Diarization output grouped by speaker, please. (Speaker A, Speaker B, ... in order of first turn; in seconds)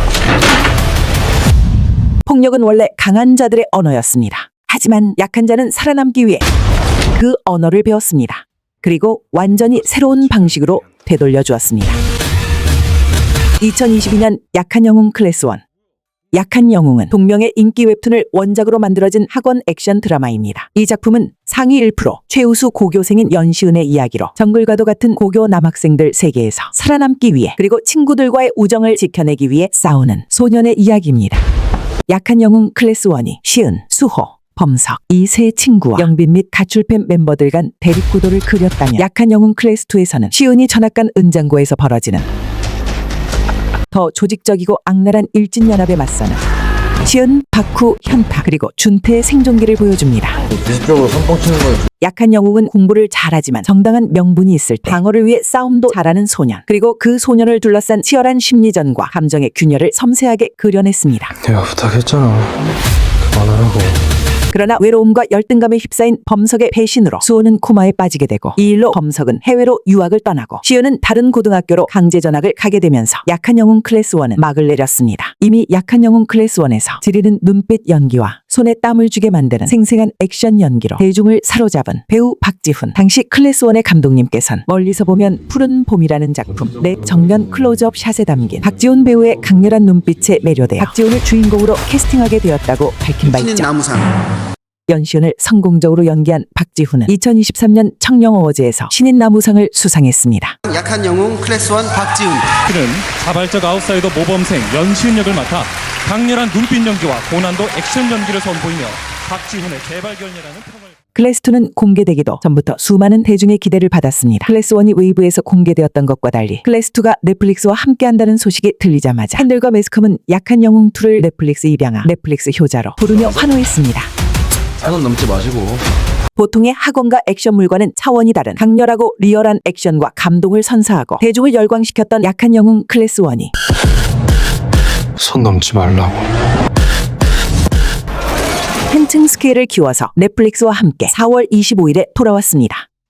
Speaker A: 2.2-6.4, 7.1-12.0, 13.6-15.6, 16.3-31.4, 32.1-42.3, 43.9-46.4, 47.0-50.4, 52.0-61.3, 64.5-93.7, 94.9-100.5, 111.1-124.1, 126.3-133.5, 138.9-142.8
Speaker B: 50.5-51.8, 124.8-125.8
Speaker C: 61.4-62.6, 63.2-64.0, 135.2-136.2
Speaker D: 93.2-94.1, 100.7-102.5
Speaker E: 102.6-110.9